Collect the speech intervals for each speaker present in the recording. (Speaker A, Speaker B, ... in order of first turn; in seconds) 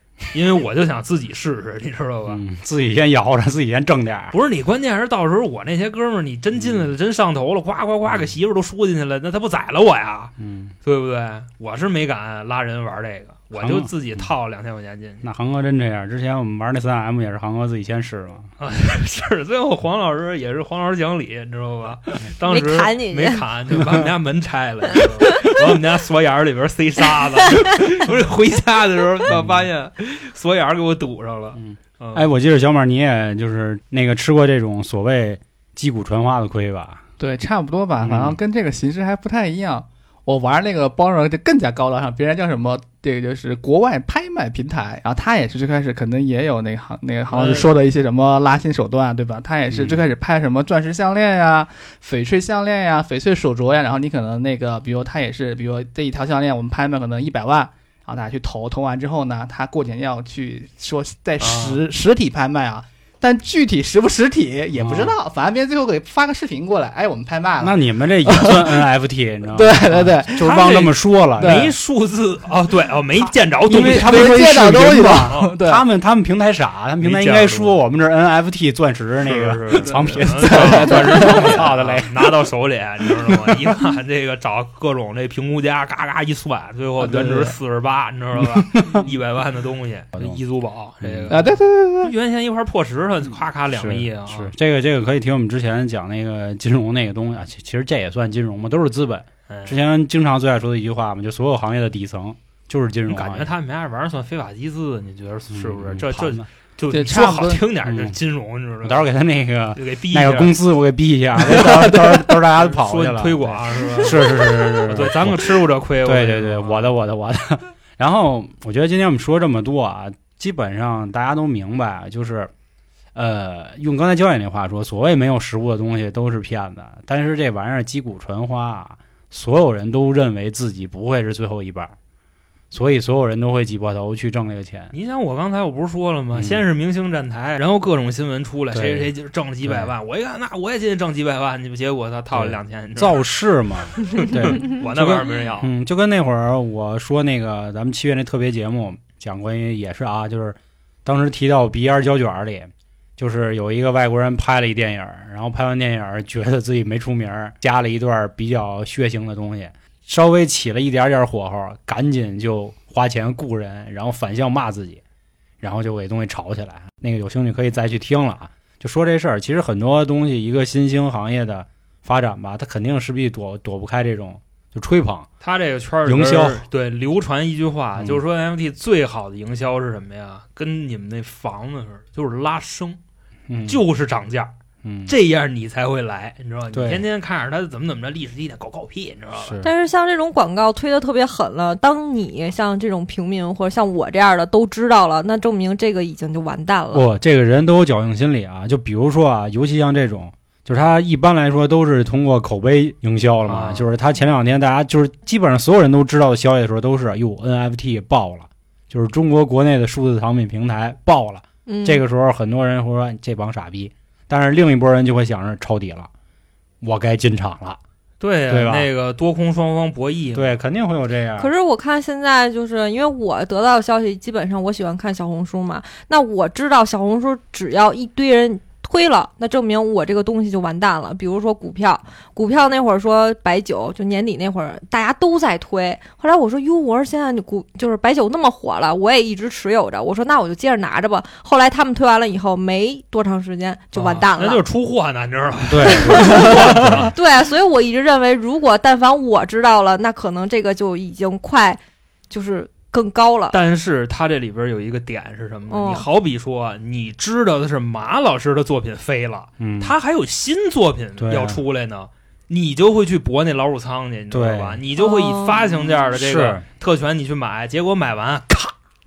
Speaker A: 0.3-2.4, 4.3-10.3, 10.8-15.2, 18.6-32.3, 47.3-47.7, 61.4-61.8, 70.3-74.3, 75.2-75.5, 77.0-77.8, 79.3-94.5, 99.5-99.8, 103.1-109.1, 109.8-110.6, 112.5-116.9, 134.9-143.2, 144.0-145.7, 175.4-183.0, 183.7-184.5, 185.1-189.6, 203.5-203.9, 218.2-220.6, 243.9-247.1, 253.5-268.7
Speaker B: 2.3-4.3, 6.6-6.9, 10.4-10.7, 13.6-14.3, 15.2-18.5, 23.8-24.1, 29.3-29.7, 31.6-37.0, 38.0-38.4, 49.7-50.0, 64.8-65.2, 67.6-71.7, 73.7-82.3, 88.6-89.0, 91.0-91.5, 93.7-103.5, 105.5-106.5, 107.8-108.2, 108.8-122.5, 123.1-131.9, 132.7-134.9, 136.3-136.6, 138.7-139.1, 139.6-139.9, 142.3-165.0, 165.6-175.3, 176.1-176.6, 177.9-178.2, 183.5-183.8, 184.8-185.1, 186.7-187.0, 189.4-189.7, 196.9-216.1, 216.8-217.8, 218.5-218.9, 220.3-221.5, 245.7-247.1, 259.6-259.9, 261.2-261.6, 264.3-264.8, 266.1-266.6
Speaker C: 22.4-23.4, 25.2-25.6, 189.6-197.1, 211.7-212.0, 221.4-244.6, 245.8-253.6, 255.7-256.1, 265.0-265.7
Speaker D: 37.2-68.9, 69.5-70.6, 71.4-71.7, 73.7-75.8, 79.9-81.7, 87.0-87.6, 91.3-92.1, 106.9-107.6, 111.5-112.2